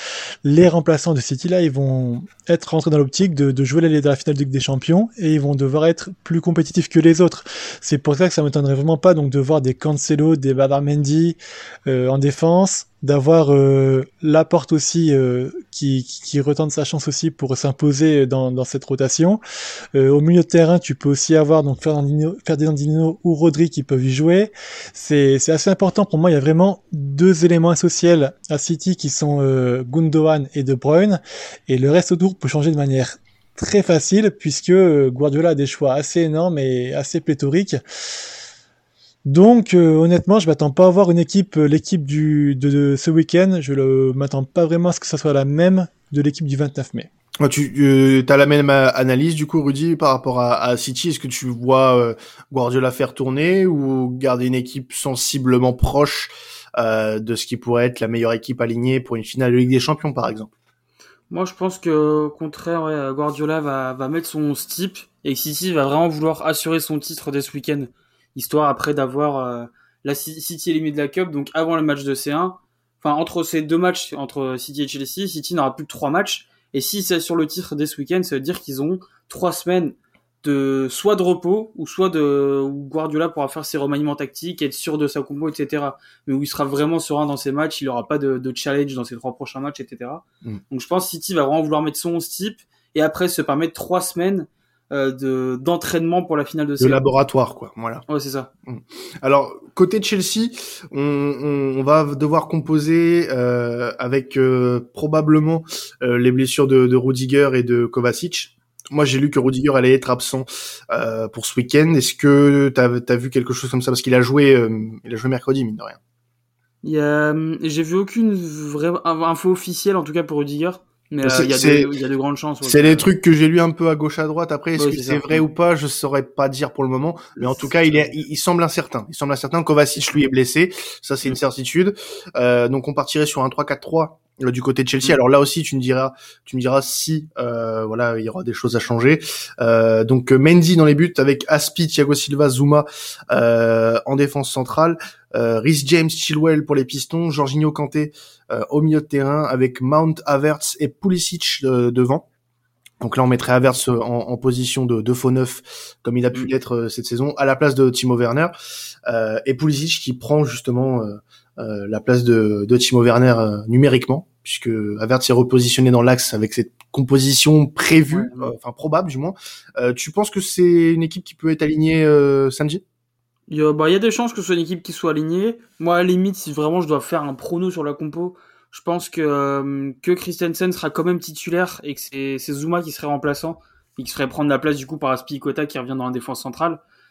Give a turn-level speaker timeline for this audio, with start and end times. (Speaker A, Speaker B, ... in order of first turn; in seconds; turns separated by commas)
Speaker A: 0.5-19.4, Speaker A: 19.9-37.8, Speaker A: 39.3-47.1, Speaker B: 47.4-60.5, Speaker C: 61.3-97.1, Speaker B: 96.8-98.0, Speaker C: 98.1-98.5, Speaker B: 98.7-116.0, Speaker C: 116.8-123.1, Speaker B: 121.2-121.9, Speaker B: 122.6-152.3, Speaker C: 124.8-125.5, Speaker C: 127.4-128.1, Speaker B: 153.0-158.5, Speaker B: 159.1-172.8, Speaker C: 168.1-168.4, Speaker C: 173.5-186.8